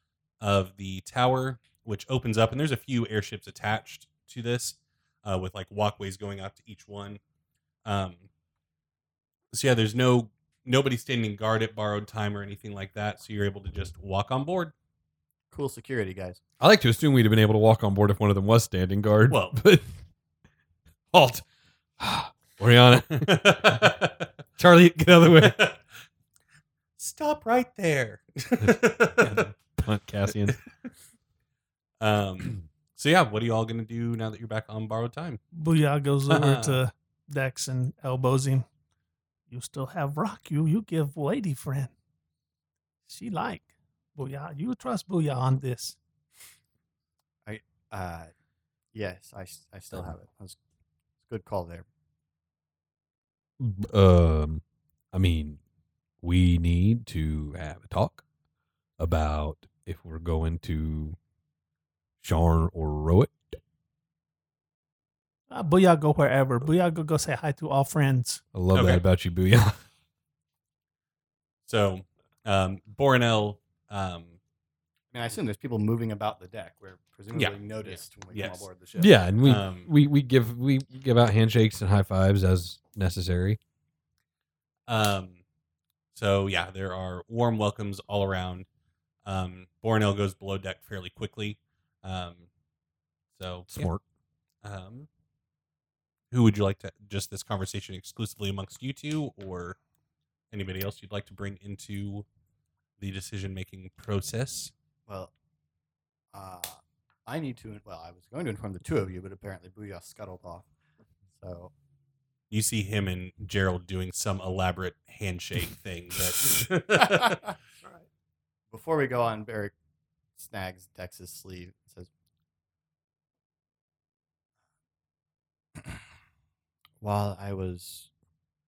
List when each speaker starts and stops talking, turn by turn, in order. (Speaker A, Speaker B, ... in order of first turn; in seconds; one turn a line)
Speaker A: 0.4-7.2
Speaker A: 7.8-8.3
Speaker A: 9.5-14.7
Speaker B: 15.5-16.4
Speaker C: 16.6-19.9
Speaker A: 19.3-19.6
Speaker C: 21.1-21.4
Speaker C: 22.0-24.0
Speaker A: 23.1-24.3
Speaker C: 24.6-25.6
Speaker A: 25.3-25.8
Speaker A: 27.0-29.5
Speaker C: 28.6-30.6
Speaker A: 32.0-35.4
Speaker D: 35.5-38.6
Speaker A: 36.3-36.8
Speaker D: 39.5-41.9
Speaker D: 43.1-46.0
Speaker B: 47.5-48.3
Speaker B: 48.9-50.6
Speaker B: 51.2-51.9
Speaker C: 53.6-55.6
Speaker C: 56.2-58.2
Speaker C: 59.0-61.2
Speaker C: 62.2-63.6
Speaker D: 65.5-68.4
Speaker C: 68.5-69.8
Speaker A: 68.7-69.0
Speaker A: 71.7-74.4
Speaker B: 75.1-79.2
Speaker A: 78.3-78.7
Speaker C: 79.0-83.6
Speaker A: 79.4-79.9
Speaker A: 84.9-85.4
Speaker A: 86.1-88.7
Speaker A: 89.2-92.5
Speaker A: 93.3-93.9
Speaker C: 93.7-94.0
Speaker A: 94.6-95.1
Speaker A: 96.3-99.8
Speaker A: 100.5-102.2
Speaker A: 103.0-104.7
Speaker B: 105.1-105.3
Speaker B: 106.3-110.7
Speaker B: 111.3-111.7
Speaker A: 112.5-117.5
Speaker B: 117.0-117.5
Speaker B: 118.7-119.7
Speaker B: 120.4-122.1
Speaker B: 125.8-126.0
Speaker B: 127.0-128.1